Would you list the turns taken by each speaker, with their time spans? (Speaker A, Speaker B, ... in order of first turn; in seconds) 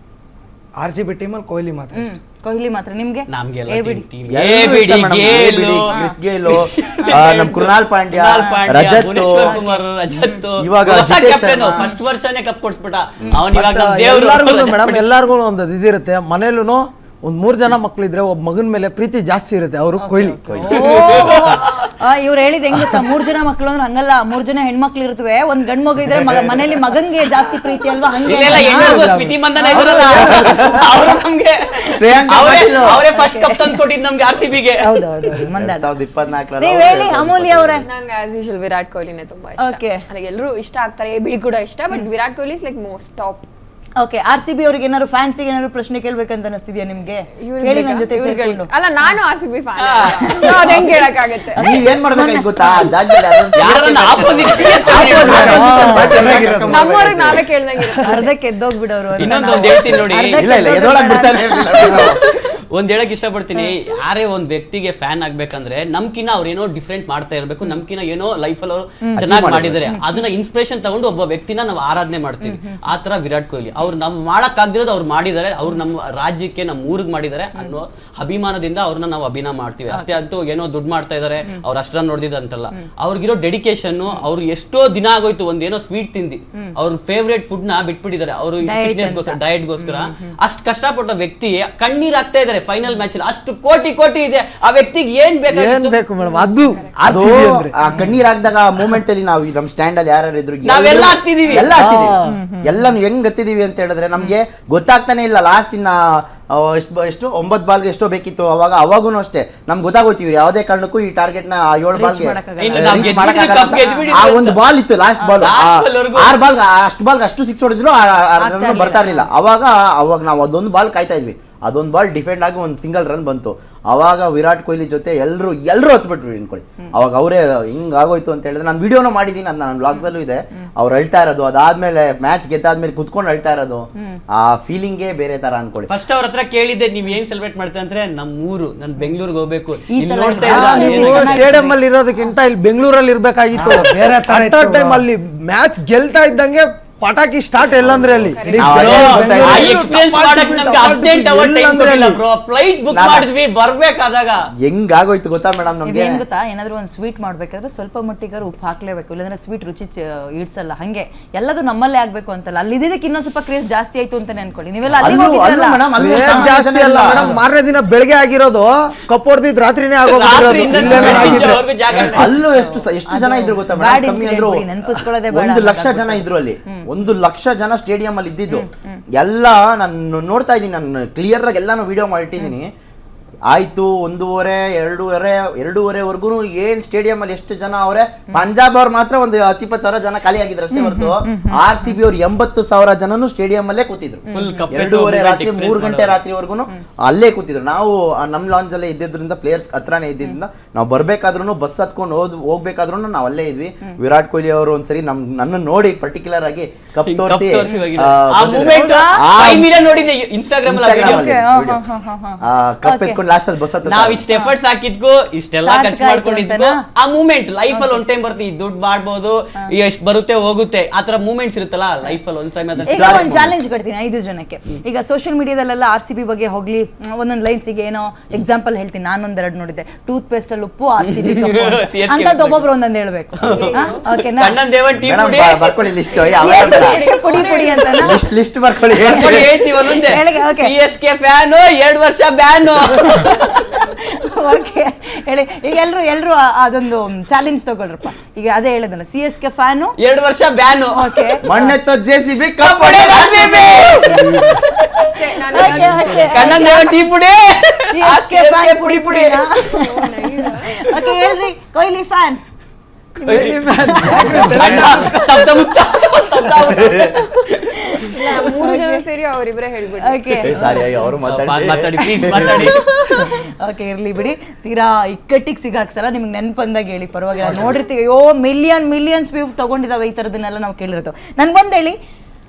Speaker A: 0.8-2.1, 54.9-56.8, 140.5-140.9, 143.5-145.0, 149.0-149.5, 264.3-264.9
Speaker B: 1.9-4.0, 5.9-6.2, 8.3-8.6, 9.4-10.4, 20.0-29.0, 29.6-30.7, 33.1-33.8, 34.8-35.9, 36.6-37.8, 39.6-40.0, 44.0-48.7, 50.3-50.6, 51.5-52.9, 55.3-56.3, 58.0-62.4, 69.8-70.2, 72.4-72.8, 79.9-80.2, 88.6-90.3, 97.9-98.1, 102.2-102.8, 111.9-114.3, 115.2-115.5, 118.4-119.3, 139.9-141.8, 148.7-149.0, 155.8-166.5, 171.1-171.5, 172.1-176.8, 178.5-179.0, 190.7-192.0, 194.3-194.7, 207.7-207.9, 208.5-209.3, 211.0-213.2, 214.3-214.6, 215.6-216.8, 217.7-218.0, 222.9-234.6, 236.4-238.2, 239.1-240.7, 243.0-243.3, 243.9-249.9, 250.9-251.8, 253.1-254.5, 255.2-257.0, 257.9-262.4, 263.7-265.2, 266.6-269.0, 270.0-270.7, 272.0-282.0
Speaker C: 3.3-15.1, 20.7-21.9, 28.2-34.9, 49.8-51.1, 53.6-56.0, 59.2-60.4, 62.7-96.0, 100.7-101.8, 112.6-114.6, 115.4-116.4, 135.9-141.5, 148.7-154.4, 170.1-172.3, 194.3-196.2, 207.1-211.2, 213.8-223.3, 231.0-232.7, 233.4-235.8, 239.0-243.7, 250.0-251.3, 252.6-255.1, 256.2-259.5, 263.2-267.6, 271.3-273.3
Speaker D: 4.3-9.6, 10.6-11.9, 20.4-21.4, 31.9-33.0, 35.6-37.9, 51.6-57.5, 60.3-62.2, 69.2-69.8, 97.0-135.9, 147.8-149.8, 152.9-153.3, 154.6-156.2, 165.0-167.4, 170.7-174.6, 175.3-182.7, 183.5-209.8, 210.7-211.8, 212.4-214.2, 222.8-223.6, 233.4-233.7, 234.9-237.0, 238.0-239.5, 251.4-253.7, 270.4-272.8
Speaker E: 13.5-20.4, 28.4-30.7, 55.0-56.4, 95.5-97.8, 101.6-102.4, 140.6-152.2, 166.0-171.6, 255.8-256.4, 263.2-265.2, 277.4-277.7
Speaker F: 37.9-43.5, 47.4-51.8, 56.6-58.3, 96.7-97.0, 148.3-148.7, 233.5-234.2, 236.1-238.1, 255.0-256.7, 259.7-261.2, 268.1-270.9